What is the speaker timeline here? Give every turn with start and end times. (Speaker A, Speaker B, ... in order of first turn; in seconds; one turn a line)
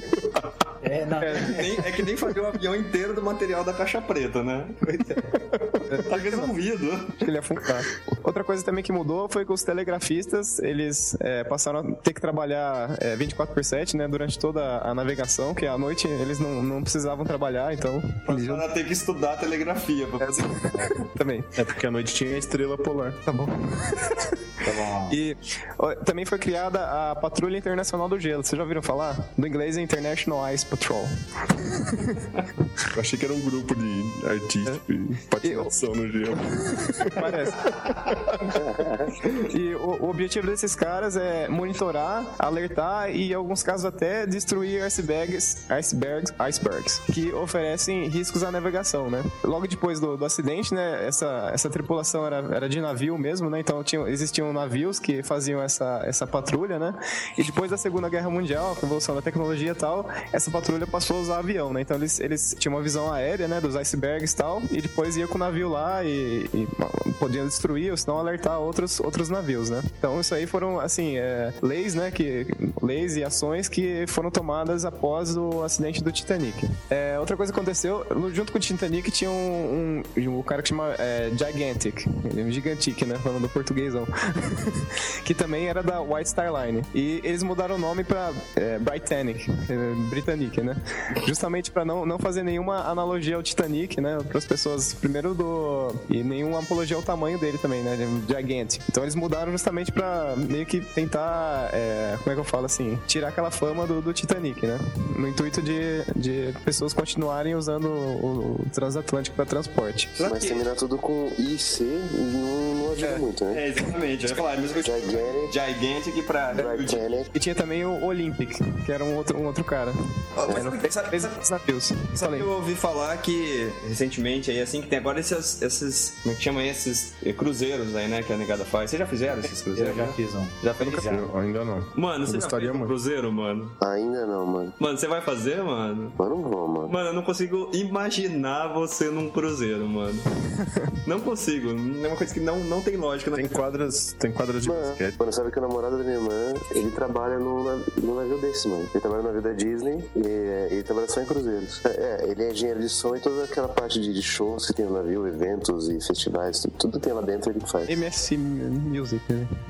Speaker A: 0.8-1.8
Speaker B: 1.2-1.7
Speaker C: 1.4-4.8
Speaker A: 4.8-5.4
Speaker B: 5.9-6.5
Speaker C: 6.0-7.2
Speaker B: 7.2-18.6
Speaker C: 18.3-20.9
Speaker B: 20.2-21.6
Speaker D: 21.6-23.2
Speaker B: 23.2-24.4
Speaker A: 24.6-25.2
Speaker B: 25.1-32.3
Speaker D: 32.9-38.6
Speaker B: 35.4-35.7
Speaker B: 36.7-38.1
Speaker B: 39.2-110.1
Speaker C: 110.1-110.6
Speaker E: 110.2-113.6
Speaker C: 113.5-117.3
Speaker E: 114.8-115.5
Speaker E: 116.5-117.3
Speaker B: 117.3-122.5
Speaker C: 120.3-121.4
Speaker C: 122.1-131.1
Speaker A: 129.7-131.3
Speaker D: 130.8-132.9
Speaker C: 131.9-133.7
Speaker E: 133.8-134.7
Speaker C: 134.8-136.2
Speaker E: 136.2-136.9
Speaker C: 136.9-140.2
Speaker B: 140.6-140.9
Speaker C: 141.0-143.7
Speaker D: 143.3-145.2
Speaker E: 144.6-158.0
Speaker B: 157.9-159.5